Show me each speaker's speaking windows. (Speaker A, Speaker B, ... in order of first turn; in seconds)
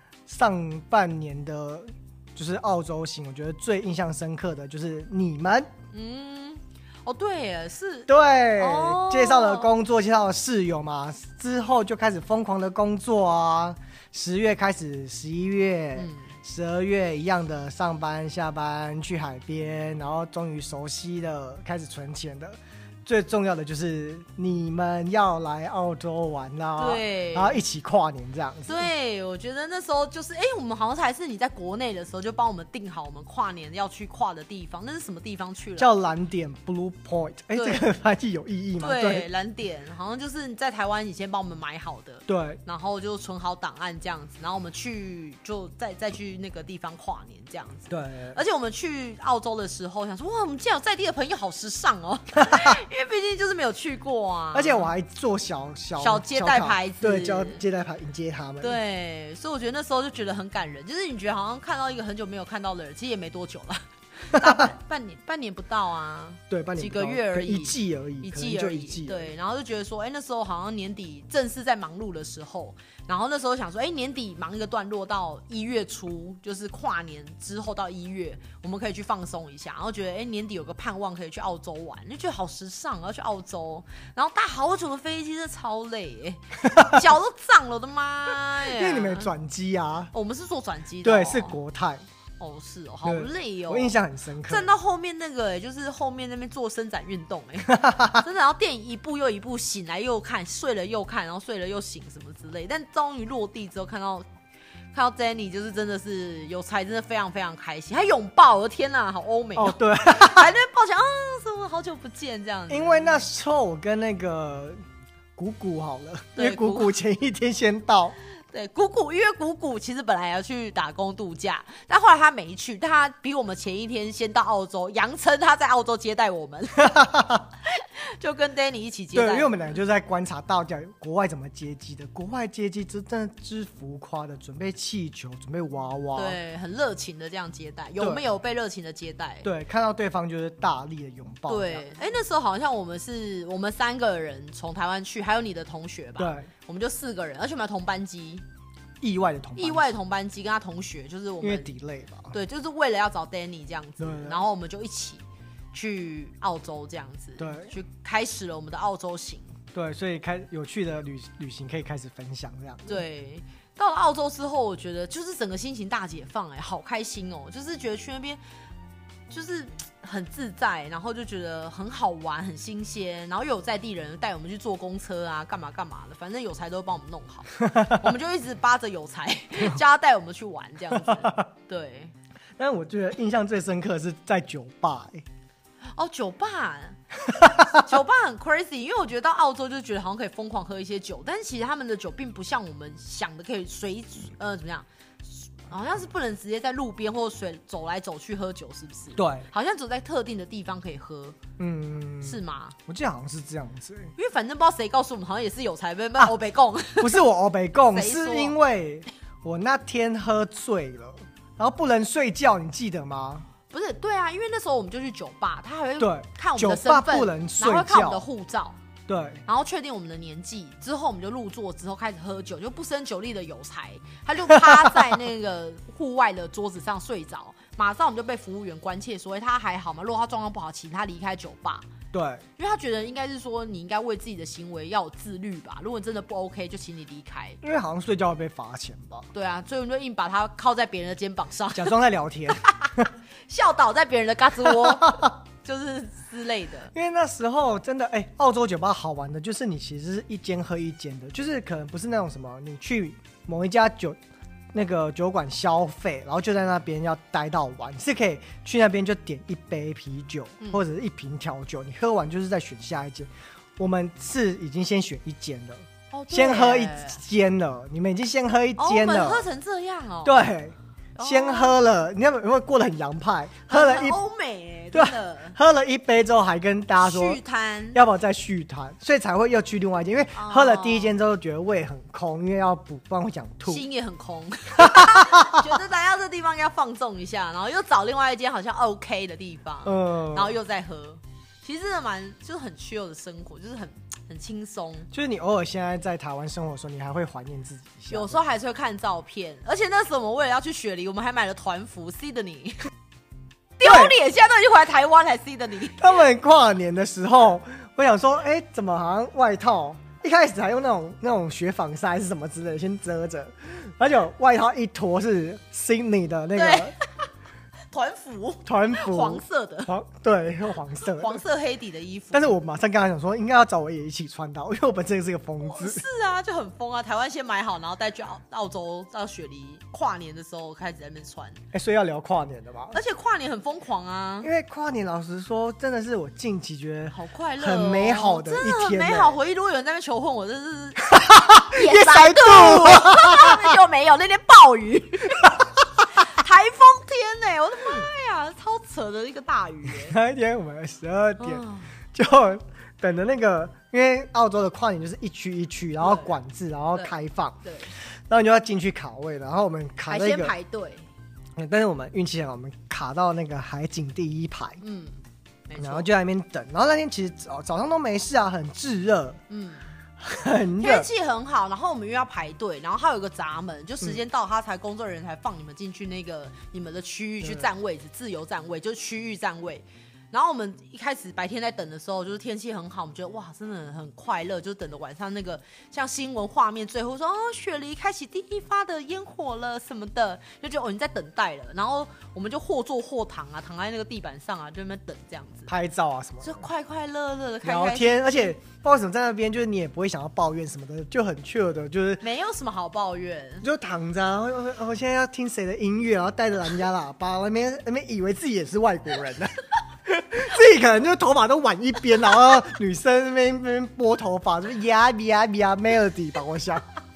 Speaker A: 0.3-5.7, 8.1-28.9, 35.8-39.3, 42.3-42.6, 47.9-48.4, 52.4-52.8, 54.5-58.8, 66.5-69.3, 86.7-87.0, 88.6-90.1, 91.0-92.0, 93.0-94.7, 97.7-98.2, 109.5-110.5, 112.7-114.8, 115.4-118.2, 126.8-127.5, 129.1-136.4, 139.4-141.9, 146.2-146.5, 149.0-149.9, 151.4-152.3, 154.0-154.4, 157.4-157.7, 159.7-163.0, 177.7-178.0, 180.9-181.4, 182.6-185.2, 187.3-187.8, 199.2-199.5, 201.6-204.1, 207.0-213.5, 216.0-218.2, 219.1-219.4, 224.5-225.0, 232.1-232.4, 237.6-239.3, 241.8-243.1, 244.7-245.3, 246.9-254.2, 254.7-269.5, 270.2-274.2, 274.9-277.4, 277.9-283.9, 284.8-285.6, 289.8-290.6, 295.1-298.4, 303.8-304.2, 306.0-316.9, 318.6-321.4, 322.3-326.0, 331.7-333.0, 334.4-339.4, 341.0-343.8, 349.9-360.5, 361.6-364.8, 365.8-369.4, 370.2-371.1, 377.4-377.7, 395.7-396.6, 397.6-402.2, 403.6-416.9
Speaker B: 5.9-9.7, 15.9-16.4, 26.8-27.6, 28.7-35.9, 37.5-37.9, 38.8-54.9, 56.0-57.6, 58.6-89.3, 90.1-91.6, 92.4-93.9, 94.5-104.3, 104.9-113.3, 116.4-117.0, 118.5-127.0, 127.6-129.8, 136.2-139.5, 141.5-148.4, 149.6-151.8, 152.3-159.6, 162.9-168.4, 169.3-182.1, 185.9-201.4, 202.2-202.8, 204.2-207.2, 207.9-208.6, 213.7-218.8, 219.5-231.9, 232.6-237.6, 239.3-241.9, 242.6-246.9, 266.1-267.2, 268.8-270.4, 271.2-271.8, 273.7-275.6, 277.0-278.0, 280.4-281.1, 283.7-295.1, 298.1-302.9, 303.8-306.1, 316.5-317.3, 317.9-319.9, 321.0-322.6, 325.6-331.6, 332.9-334.5, 337.1-350.2, 351.4-351.9, 356.0-356.4, 356.9-357.9, 360.1-361.1, 364.8-366.1, 369.5-369.9, 370.8-395.7, 396.4-398.5, 402.2-403.7